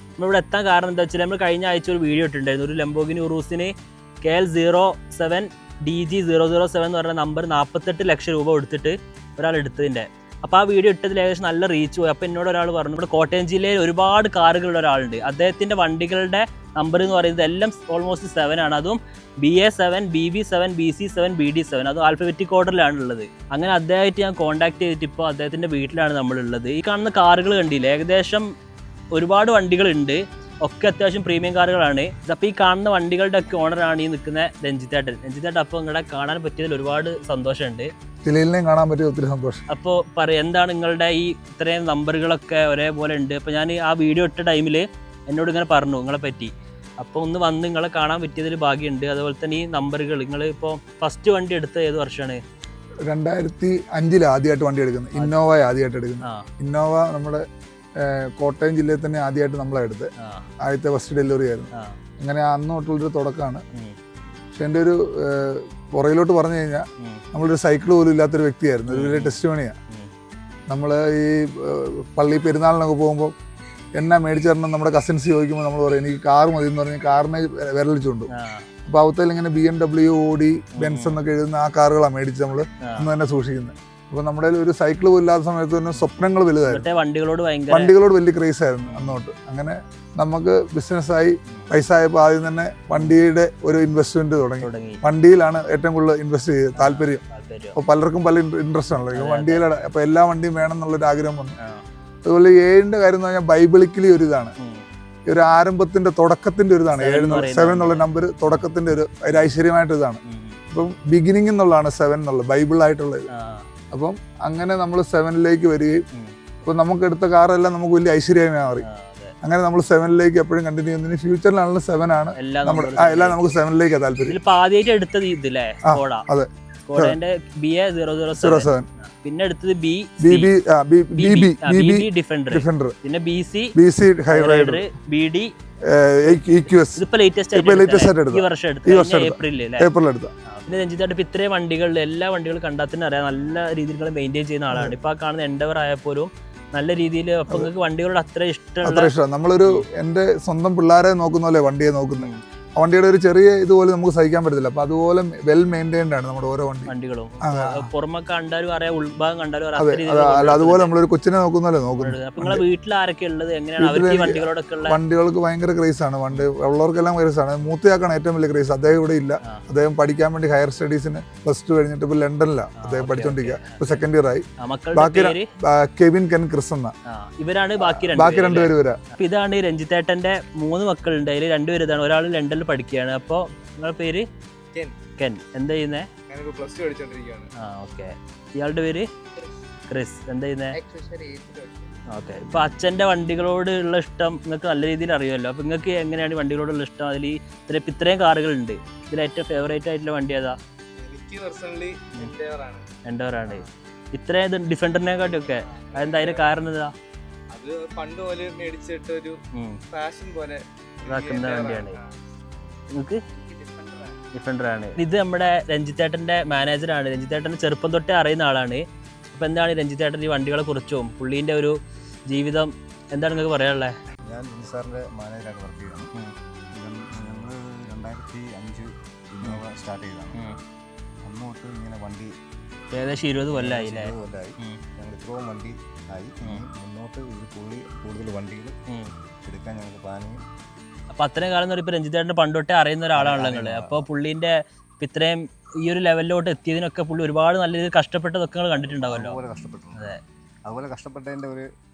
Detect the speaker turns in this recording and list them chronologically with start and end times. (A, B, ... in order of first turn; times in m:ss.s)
0:00.2-0:28.5 A
0:29.1-0:37.9 A
0:38.2-0:39.6 B
0:39.7-0:52.4 A
0:53.1-0:57.4 B
0:55.2-0:55.4 A
0:58.0-1:00.1 B
1:00.2-1:00.5 A
1:00.6-1:03.6 B
1:04.6-1:09.8 B
1:08.9-1:09.4 A
1:10.7-1:13.3 B
1:14.0-1:18.3 B
1:18.3-1:18.7 A
1:18.9-1:26.9 B
1:20.8-1:21.2 A
1:22.8-1:23.1 A
1:26.7-1:27.9 A
1:27.7-1:37.2 B
1:28.9-1:29.2 A
1:33.0-1:33.2 A
1:34.6-1:35.0 A
1:36.8-1:37.8 A
1:37.8-1:41.6 B
1:39.1-1:39.6 A
1:42.3-1:44.5 B
1:45.3-1:50.2 B
1:47.0-1:48.1 A
1:50.3-1:50.6 A
1:50.7-1:53.3 B
1:53.3-1:53.7 A
1:53.9-1:56.0 B
1:56.6-1:58.8 B
1:58.8-1:59.4 A
1:59.4-2:04.4 B
2:02.4-2:03.6 A
2:04.3-2:06.3 A
2:05.9-2:07.2 B
2:06.8-2:10.5 A
2:08.4-2:08.9 B
2:10.2-2:12.9 B
2:11.2-2:13.7 A
2:13.8-2:14.8 B
2:14.3-2:15.5 A
2:15.9-2:17.0 B
2:17.0-2:19.9 A
2:17.5-2:20.3 B
2:20.5-2:29.1 A
2:24.7-2:25.0 B
2:28.8-2:36.9 B
2:36.9-2:40.9 A
2:37.4-2:37.9 B
2:39.8-2:42.6 B
2:42.0-2:45.0 A
2:43.8-2:56.9 B
2:52.8-2:54.0 A
2:54.6-2:55.5 A
2:57.1-3:04.2 A
2:57.8-2:59.0 B
3:05.2-3:06.1 A
3:06.3-3:07.5 C
3:07.6-3:09.1 A
3:09.9-3:10.8 A
3:10.8-3:11.9 C
3:12.1-3:20.6 A
3:21.0-3:22.8 C
3:23.1-3:26.9 A
3:25.0-3:26.6 C
3:27.5-3:29.4 C
3:29.5-3:29.8 A
3:29.9-3:32.2 C
3:31.1-3:32.0 A
3:33.3-3:34.2 C
3:34.3-3:41.8 A
3:42.3-3:43.9 A
3:44.3-3:46.1 D
3:46.7-3:50.6 D
3:50.3-3:50.6 A
3:51.2-3:52.3 D
3:52.9-3:54.8 A
3:53.5-3:58.8 D
3:59.4-4:00.4 D
4:01.1-4:09.4 A
4:03.2-4:04.1 D
4:08.8-4:11.6 D